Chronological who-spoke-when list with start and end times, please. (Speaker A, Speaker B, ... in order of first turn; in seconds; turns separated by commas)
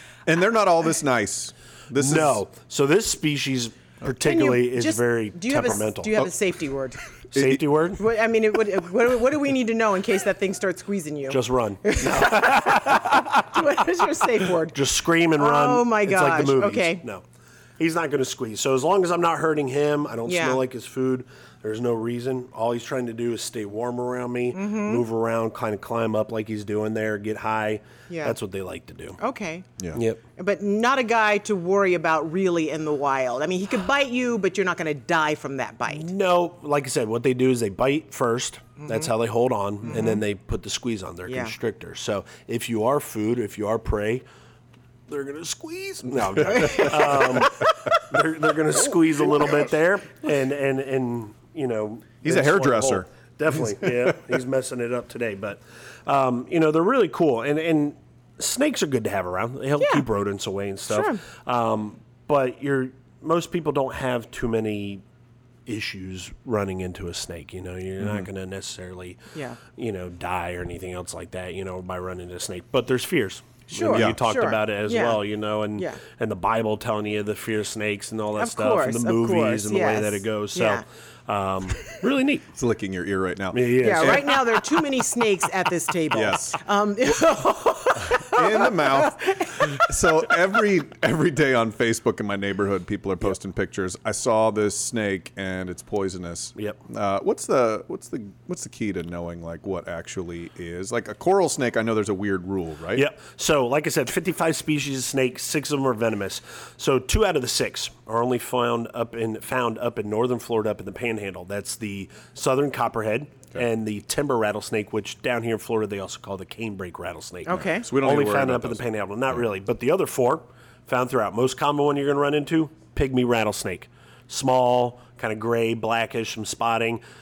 Speaker A: 0.3-2.4, Speaker B: 1.9-6.2, Speaker C: 4.1-7.0, Speaker A: 7.3-7.7, Speaker B: 7.3-8.0, Speaker C: 8.0-14.8, Speaker B: 11.3-13.4, Speaker B: 14.7-17.2, Speaker C: 15.4-17.0, Speaker B: 17.8-29.2, Speaker C: 20.3-20.6, Speaker C: 24.5-25.0, Speaker C: 28.1-28.4, Speaker C: 29.2-29.7, Speaker B: 29.9-30.2, Speaker C: 30.4-36.1, Speaker B: 35.9-44.2, Speaker C: 38.8-39.1, Speaker C: 39.9-40.2, Speaker C: 41.3-41.5, Speaker B: 45.1-65.0, Speaker C: 46.4-47.7, Speaker A: 46.4-47.0, Speaker A: 52.2-53.1, Speaker C: 59.8-60.0, Speaker C: 60.9-61.2, Speaker B: 65.7-69.2, Speaker A: 68.0-68.3, Speaker C: 69.3-69.6, Speaker B: 69.7-82.5, Speaker C: 73.7-75.2, Speaker A: 73.9-74.2, Speaker C: 78.4-80.8, Speaker A: 82.5-84.4, Speaker B: 83.5-84.6, Speaker C: 83.8-89.9, Speaker A: 86.1-86.6, Speaker A: 88.1-103.1, Speaker B: 103.0-127.0, Speaker C: 117.5-117.9, Speaker A: 117.8-119.4